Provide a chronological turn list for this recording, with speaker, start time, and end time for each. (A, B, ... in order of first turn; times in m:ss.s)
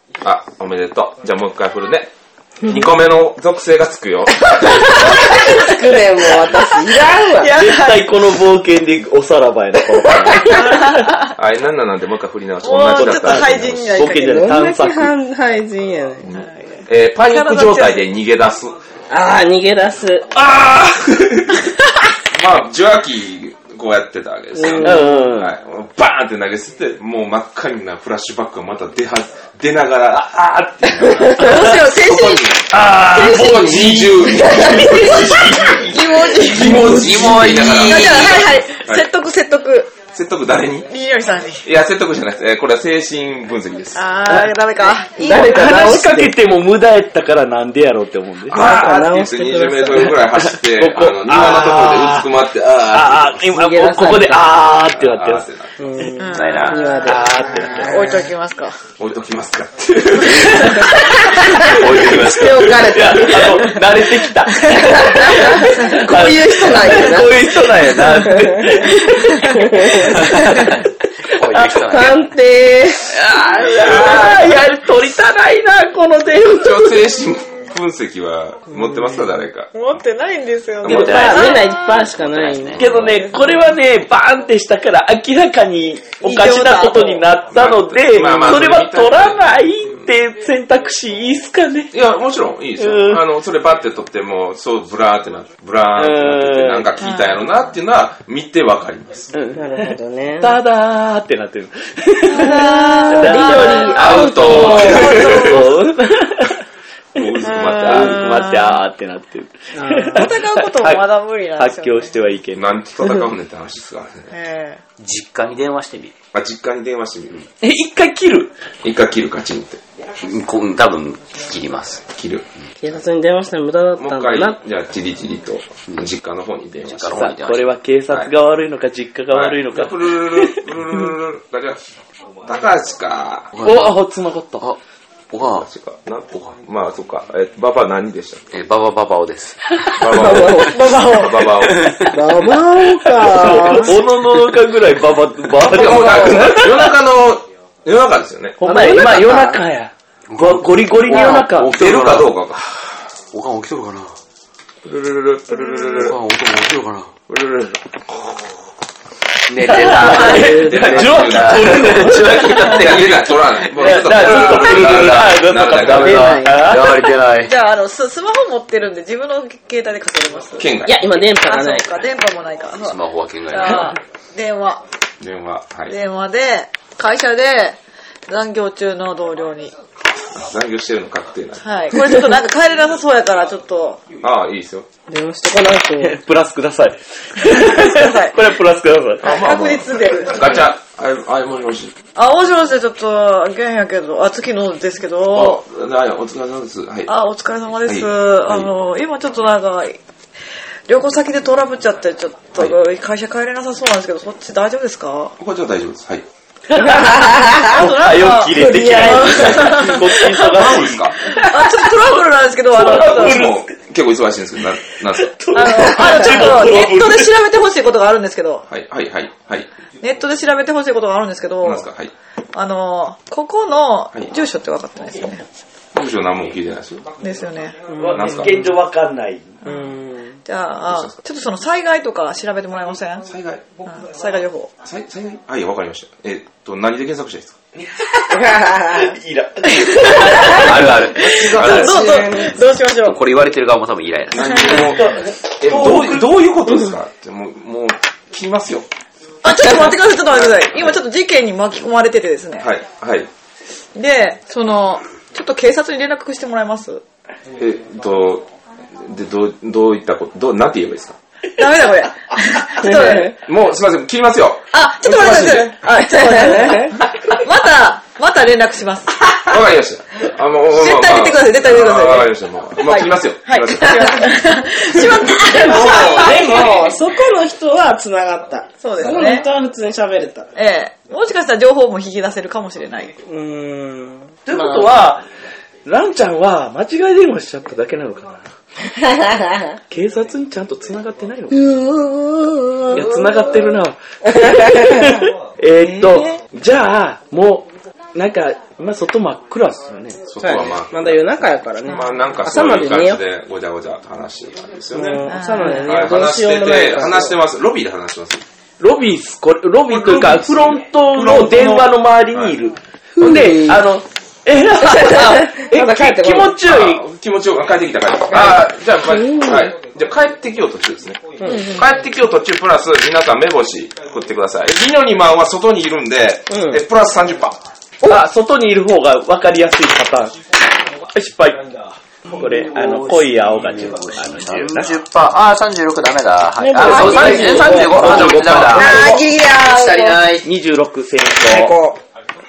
0:00.2-0:05.4 A
0:04.5-0:07.7 B
0:07.0-0:11.1 C
0:07.5-0:08.0 D
0:10.1-0:10.5 B
0:10.5-0:11.3 D
0:11.3-0:14.0 A
0:12.6-0:14.6 D
0:12.7-0:15.1 C
0:14.3-0:16.3 B
0:16.2-0:18.8 A
0:16.6-0:18.1 D
0:19.1-0:20.3 B
0:20.3-0:21.7 A
0:22.3-0:39.0 A
0:24.6-0:25.3 B
0:24.8-0:25.5 C
0:30.6-0:31.8 C
0:31.3-0:32.6 D
0:32.7-0:37.1 C
0:34.8-0:40.0 D
0:36.8-0:38.6 E
0:40.1-0:40.9 A
0:40.9-0:41.6 D
0:41.6-0:44.0 A
0:43.9-0:45.9 D
0:44.3-0:44.6 C
0:45.2-0:48.9 C
0:45.2-0:46.3 B
0:48.5-0:50.2 B
0:48.5-0:53.4 A
0:50.3-0:52.3 C
0:52.9-0:55.5 C
0:53.4-0:54.6 B
0:54.8-0:55.8 A
0:55.8-0:58.2 B
0:56.2-0:57.1 D
0:56.3-0:57.0 E
0:57.0-0:58.0 C
0:57.8-0:58.7 D
0:59.0-1:02.5 A
1:00.4-1:00.9 D
1:00.6-1:00.9 C
1:01.4-1:03.6 B
1:01.4-1:10.8 C
1:01.6-1:02.9 E
1:03.0-1:03.4 A
1:04.6-1:08.9 B
1:05.6-1:06.1 D
1:09.5-1:10.3 B
1:11.3-1:12.3 E
1:11.8-1:13.1 B
1:13.1-1:16.9 C
1:13.9-1:14.3 A
1:16.4-1:19.7 A
1:19.7-1:21.7 D
1:20.8-1:22.8 B
1:20.8-1:22.8 E
1:21.0-1:21.3 C
1:22.8-1:31.9 C
1:22.8-1:23.2 A
1:23.0-1:23.6 D
1:26.2-1:27.3 D
1:27.5-1:30.1 A
1:31.9-1:39.3 A
1:32.8-1:33.2 C
1:36.0-1:36.9 C
1:37.0-1:37.4 D
1:39.3-1:39.9 C
1:39.5-1:40.6 B
1:40.4-1:46.6 C
1:42.3-1:45.7 D
1:42.3-1:45.3 B
1:43.7-1:45.7 A
1:47.1-1:48.2 A
1:47.4-1:53.2 C
1:47.4-1:48.8 D
1:49.8-1:50.3 B
1:49.9-1:52.2 D
1:52.6-1:54.3 A
1:54.3-1:54.8 D
1:55.0-1:56.1 E
1:56.3-1:57.5 A
1:57.6-1:58.5 C
1:58.8-1:59.8 A
2:00.2-2:02.0 E
2:02.1-2:02.4 A
2:02.8-2:04.6 B
2:04.0-2:07.3 A
2:06.8-2:07.7 E
2:07.1-2:10.6 C
2:09.3-2:11.8 A
2:12.4-2:13.5 A
2:13.5-2:14.0 E
2:13.6-2:14.7 C
2:15.3-2:15.7 E
2:15.6-2:18.5 A
2:18.5-2:19.7 E
2:20.0-2:22.1 A
2:20.1-2:21.5 B
2:20.6-2:21.1 D
2:22.1-2:24.0 B
2:23.0-2:26.9 C
2:25.6-2:28.6 A
2:28.6-2:31.9 C
2:28.6-2:29.6 B
2:30.3-2:32.3 F
2:31.1-2:33.0 A
2:33.3-2:34.2 F
2:34.8-2:36.2 A
2:36.0-2:37.1 F
2:37.3-2:38.6 A
2:39.5-2:47.5 E
2:39.6-2:43.0 C
2:40.1-2:46.5 A
2:43.7-2:47.2 C
2:47.4-2:50.7 D
2:50.6-2:51.3 A
2:50.8-2:51.9 B
2:51.4-2:54.8 D
2:52.8-2:54.0 E
2:55.2-2:56.0 A
2:55.9-2:59.7 D
3:00.2-3:01.6 A
3:01.6-3:04.0 D
3:04.2-3:04.9 A
3:05.1-3:06.2 B
3:06.0-3:09.4 C
3:07.4-3:08.5 D
3:09.2-3:12.0 A
3:09.2-3:10.7 D
3:12.1-3:15.6 D
3:15.3-3:17.1 A
3:17.1-3:20.0 D
3:17.8-3:18.7 A
3:20.9-3:25.3 D
3:25.4-3:26.2 A
3:26.7-3:31.9 C
3:27.0-3:27.7 B
3:27.5-3:33.5 D
3:28.6-3:29.2 B
3:29.3-3:31.4 A
3:32.7-3:33.7 C
3:32.7-3:36.0 A
3:35.1-3:37.3 C
3:35.5-3:38.7 D
3:38.7-3:39.7 A
3:40.0-3:41.9 D
3:41.6-3:42.1 A
3:42.5-3:45.4 D
3:45.9-3:47.1 A
3:47.2-3:47.8 D
3:47.9-3:48.6 B
3:47.9-3:49.6 C
3:48.1-3:48.6 A
3:49.6-3:53.3 D
3:49.6-3:50.3 B
3:50.9-3:51.2 A
3:53.3-3:53.7 A
3:53.8-3:54.7 D
3:54.8-3:57.6 A
3:57.8-4:01.0 C
3:58.4-3:59.0 B
3:59.7-4:00.6 D
4:00.3-4:01.9 E
4:01.1-4:03.2 D
4:01.3-4:02.5 A
4:01.8-4:02.5 B
4:02.9-4:05.0 E
4:04.3-4:08.9 A
4:04.6-4:06.4 C
4:09.4-4:12.7 D
4:10.3-4:10.9 A
4:12.6-4:13.3 A
4:13.9-4:17.0 D
4:17.6-4:21.2 A
4:21.6-4:23.3 D
4:22.8-4:23.3 B
4:22.9-4:25.8 A
4:24.7-4:29.3 D
4:26.0-4:26.9 B
4:29.3-4:34.3 A
4:30.7-4:36.9 D
4:35.3-4:40.5 B
4:38.8-4:39.5 D
4:40.6-4:43.2 D
4:43.3-4:44.9 B
4:44.4-4:45.3 C
4:45.8-4:48.5 C
4:49.9-4:51.7 C
4:51.6-4:53.0 B
4:52.9-5:00.2 C
4:54.5-4:55.1 B
4:56.0-4:56.3 D
5:00.2-5:08.4 A
5:00.4-5:03.2 B
5:04.9-5:07.4 B
5:05.3-5:05.9 D
5:08.8-5:17.0 C
5:09.9-5:12.6 A
5:13.2-5:13.8 B
5:14.8-5:16.6 B
5:16.6-5:27.6 A
5:19.1-5:19.7 B
5:21.4-5:21.8 D
5:26.5-5:26.8 B
5:28.0-5:30.4 C
5:31.1-5:31.7 C
5:32.3-5:34.9 C
5:32.4-5:40.4 E
5:36.6-5:38.1 B
5:36.7-5:39.2 C
5:38.1-5:38.6 A
5:38.7-5:40.2 D
5:38.7-5:40.1 B
5:40.4-5:41.8 C
5:41.5-5:42.0 B